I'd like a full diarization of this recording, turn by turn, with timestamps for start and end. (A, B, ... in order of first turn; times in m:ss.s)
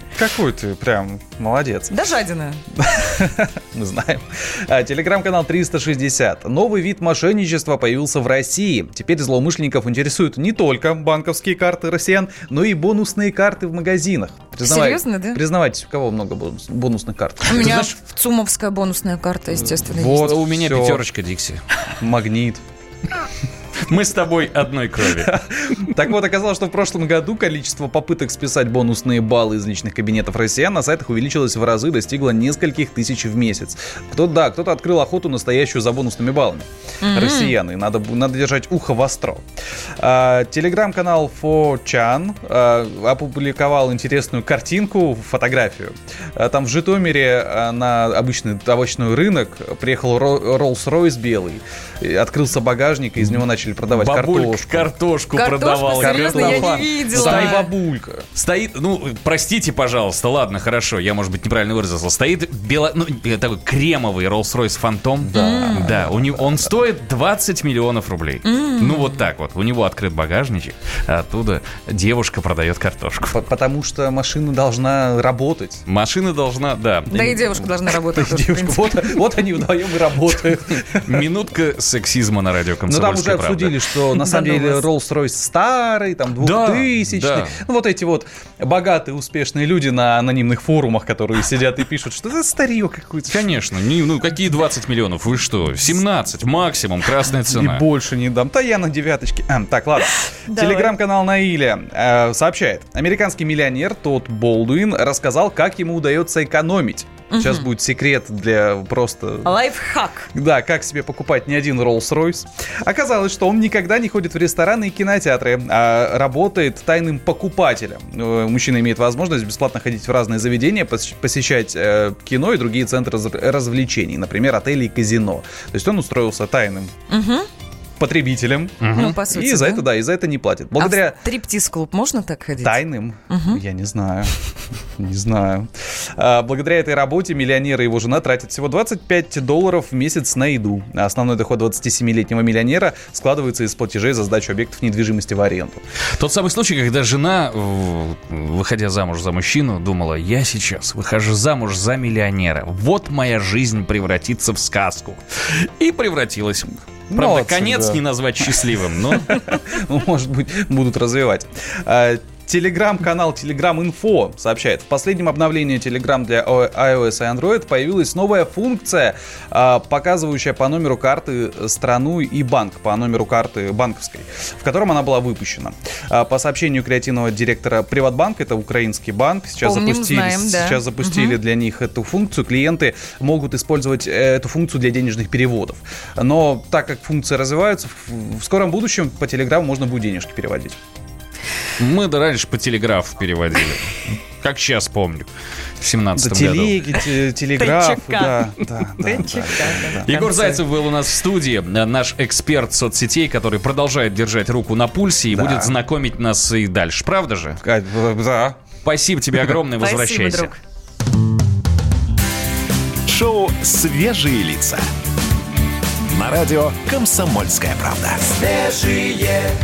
0:00.1-0:01.9 A
0:01.9-0:02.6 B
0:02.8-0:17.9 A
0:14.6-0:15.4 B
0:17.5-0:20.3 B
0:17.6-0:17.9 C
0:19.7-0:21.0 A
0:20.0-0:21.6 C
0:22.0-0:22.6 A
0:23.9-0:25.4 C
0:25.2-0:39.5 A
0:37.0-0:37.6 B
0:40.0-0:54.9 A
0:54.0-0:57.6 C
0:55.4-0:57.7 B
0:55.8-0:58.2 A
0:58.4-1:13.4 C
1:05.2-1:06.7 A
1:05.4-1:05.9 B
1:08.4-1:09.2 B
1:13.3-1:15.8 A
1:15.9-1:17.2 C
1:17.1-1:21.3 A
1:17.1-1:19.2 B
1:21.0-1:23.9 C
1:22.9-1:33.5 A
1:24.2-1:24.8 B
1:26.4-1:27.6 C
1:33.3-1:37.8 C
1:37.5-1:49.5 A
1:40.5-1:40.9 B
1:47.3-1:47.7 B
1:49.4-1:50.3 B
1:50.3-2:06.9 A
2:07.1-2:07.5 B
2:08.0-2:11.2 A
2:08.8-2:09.1 C
2:08.9-2:09.9 B
2:10.8-2:13.6 B
2:12.6-2:14.3 A
2:15.0-2:25.8 A
2:26.2-2:39.4 C
2:37.1-3:10.8 A
2:59.6-3:01.4 B
3:11.8-3:15.3 C
3:15.8-3:16.8 C
3:16.2-3:20.5 A
3:17.6-3:18.4 B
3:19.0-3:20.6 B
3:20.0-3:27.6 C
3:25.3-3:25.8 A
3:27.6-3:28.6 A
3:28.8-3:30.6 C
3:29.8-3:30.6 B
3:33.1-3:34.8 D
3:36.1-3:38.4 D